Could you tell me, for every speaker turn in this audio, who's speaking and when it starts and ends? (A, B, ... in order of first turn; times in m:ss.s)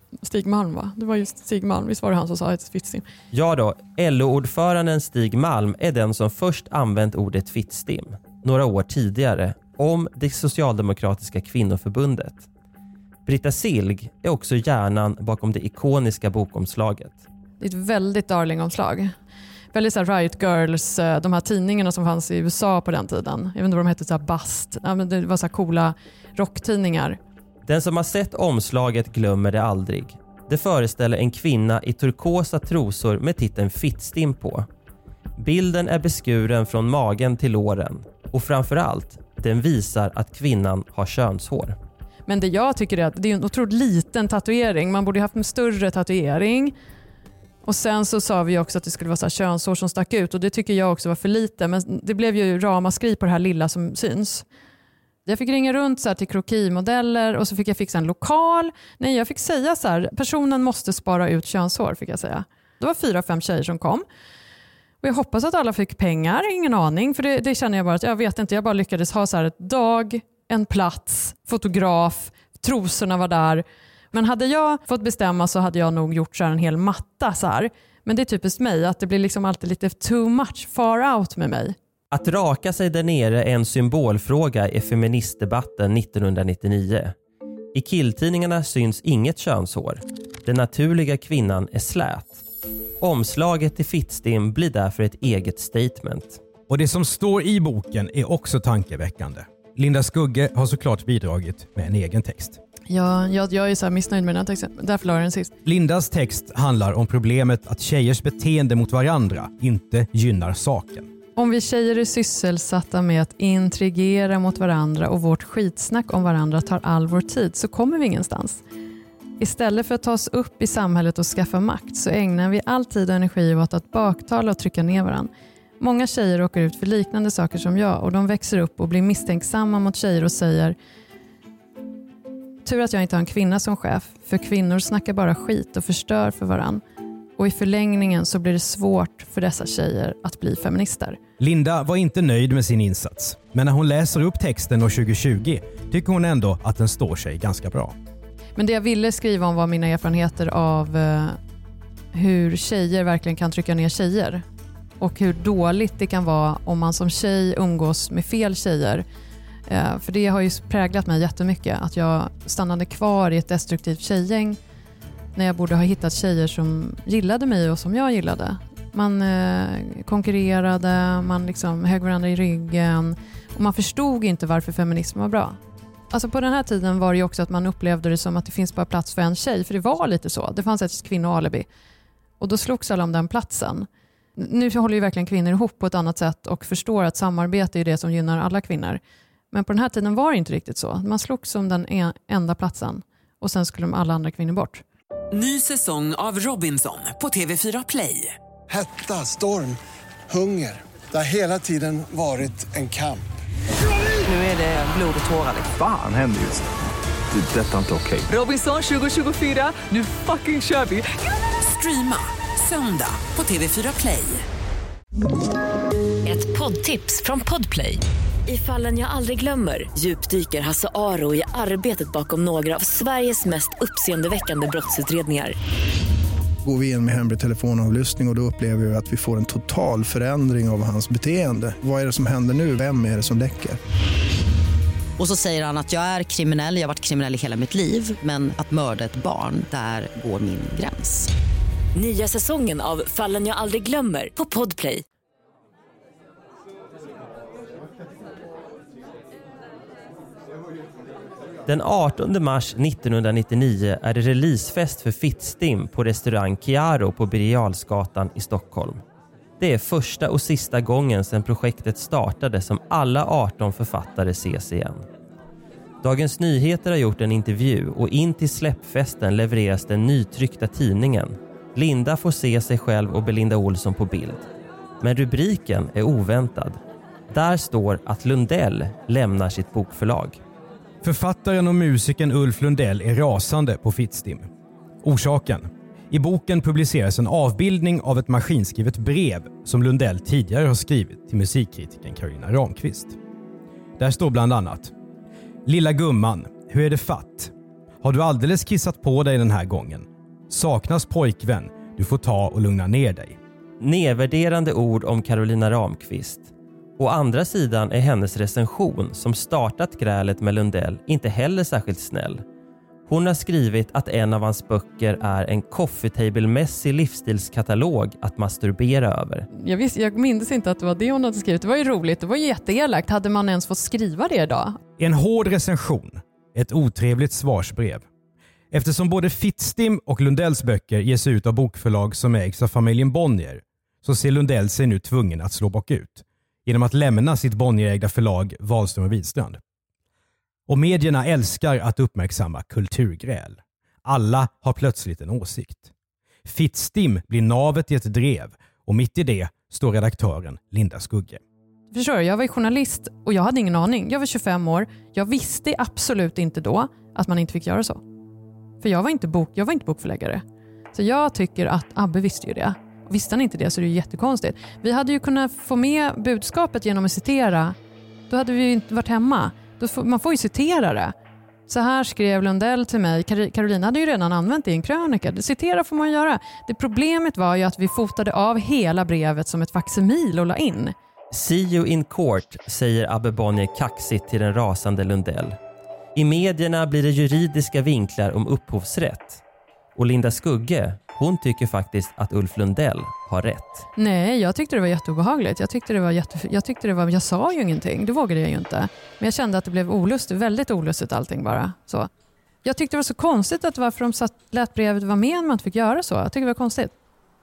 0:00.2-0:03.1 A
0:03.3-0:12.4 B
0:13.3-0:17.2 B
0:17.6-0:19.1 A
0:19.7-0:27.2 A
0:27.7-0:34.7 B
0:35.4-0:41.8 B
0:42.3-0:46.8 A
0:47.6-0:54.4 A
0:55.3-1:04.0 A
1:05.0-1:21.8 A
1:22.1-1:27.2 B
1:27.7-1:32.4 B
1:33.0-1:36.4 B
1:36.7-1:42.6 C
1:42.9-1:45.5 A
1:45.6-1:51.1 C
1:51.4-1:58.6 A
1:59.4-2:10.8 A
2:12.6-2:16.8 A
2:17.4-2:21.2 A
2:21.4-2:28.0 C
2:28.6-2:31.4 A
2:32.1-2:34.4 A
2:35.0-2:39.0 A
2:39.7-2:44.6 A
2:45.4-2:55.6 A
2:56.1-3:01.7 A
3:02.4-3:09.0 A
3:09.5-3:14.8 A
3:15.3-3:18.4 D
3:18.7-3:23.2 E
3:24.2-3:25.8 D
3:25.7-3:26.6 F
3:27.3-3:28.3 F
3:28.3-3:34.4 D
3:36.2-3:45.6 G
3:46.6-3:53.8 H
3:55.2-4:01.2 I
4:02.0-4:05.0 G
4:11.7-4:19.0 B
4:19.6-4:25.0 B
4:26.0-4:34.5 B
4:35.0-4:36.8 B
4:37.3-4:40.4 B
4:41.0-4:44.5 C
4:45.0-4:53.2 C
4:54.0-4:54.9 C
4:55.7-5:03.4 C
5:03.8-5:12.4 B
5:13.1-5:19.5 B
5:19.5-5:24.8 A
5:25.0-5:28.1 C
5:28.7-5:39.6 C
5:40.7-5:45.9 C
5:46.5-5:51.4 C
5:51.9-5:58.0 A
5:58.8-6:00.4 A
6:00.9-6:07.8 A
6:08.3-6:11.1 A
6:11.7-6:20.9 A
6:21.3-6:25.6 B
6:26.2-6:29.4 B
6:30.0-6:33.9 B
6:34.0-6:42.1 A
6:42.6-6:46.9 A